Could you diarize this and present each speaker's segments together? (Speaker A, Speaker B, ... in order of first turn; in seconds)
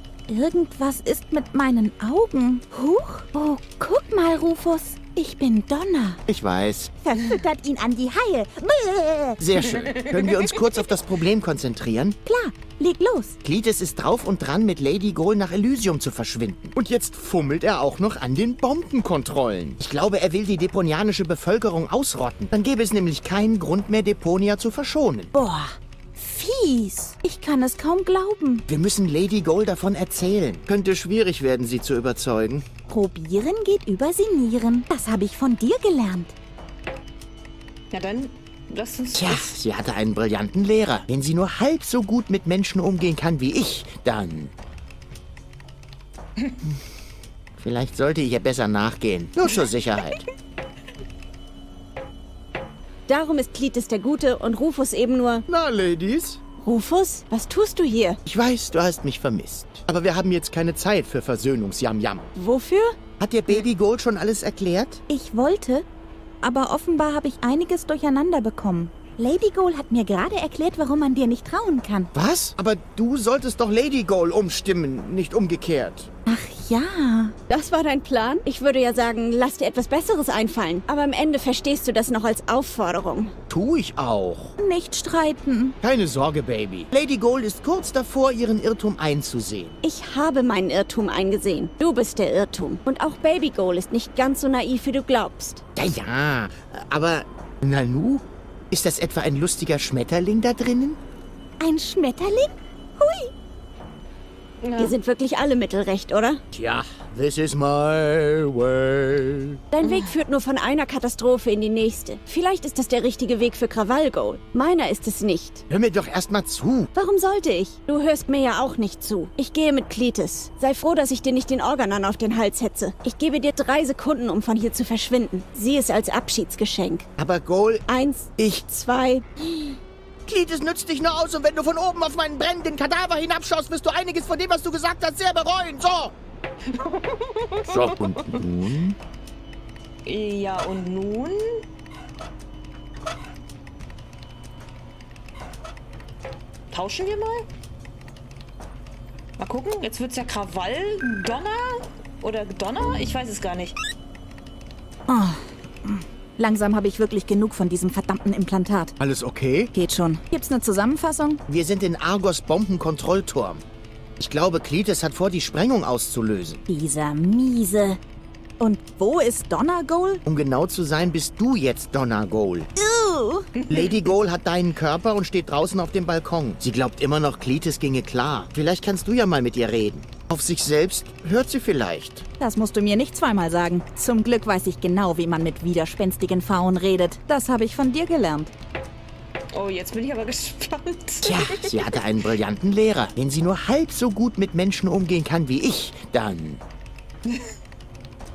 Speaker A: 0.3-6.2, 7.0-9.4, 12.2-13.3, 25.3-28.6, 32.9-36.3, 65.1-65.8, 66.4-72.1, 76.2-77.4, 84.6-85.8, 101.6-103.3, 155.1-158.9, 159.7-161.4, 166.7-168.0, 168.6-170.2, 172.8-173.5, 182.4-188.5
Speaker B: 6.3-6.9, 9.4-12.2, 13.4-25.3, 28.7-32.6, 39.1-44.5, 47.6-50.2, 55.5-56.4, 58.2-62.3, 63.2-65.0, 72.1-76.1, 83.5-84.5, 85.8-89.8, 95.8-101.0, 106.5-109.6, 115.7-116.9, 127.2-127.8, 128.4-128.8, 130.2-136.1, 137.7-139.0, 159.0-159.7, 161.5-163.6, 164.2-166.6, 170.2-172.7, 173.7-182.2, 191.2-196.6
Speaker C: 10.0-10.3, 37.9-39.5, 136.8-138.4, 140.0-141.4, 146.7-147.4, 149.4-151.6, 152.2-153.8, 173.7-174.0, 189.5-191.9
Speaker D: 53.1-55.4, 56.6-58.2, 62.3-63.0, 77.5-83.3, 89.8-95.6, 104.8-106.4, 109.7-115.6, 116.9-127.0, 127.9-129.2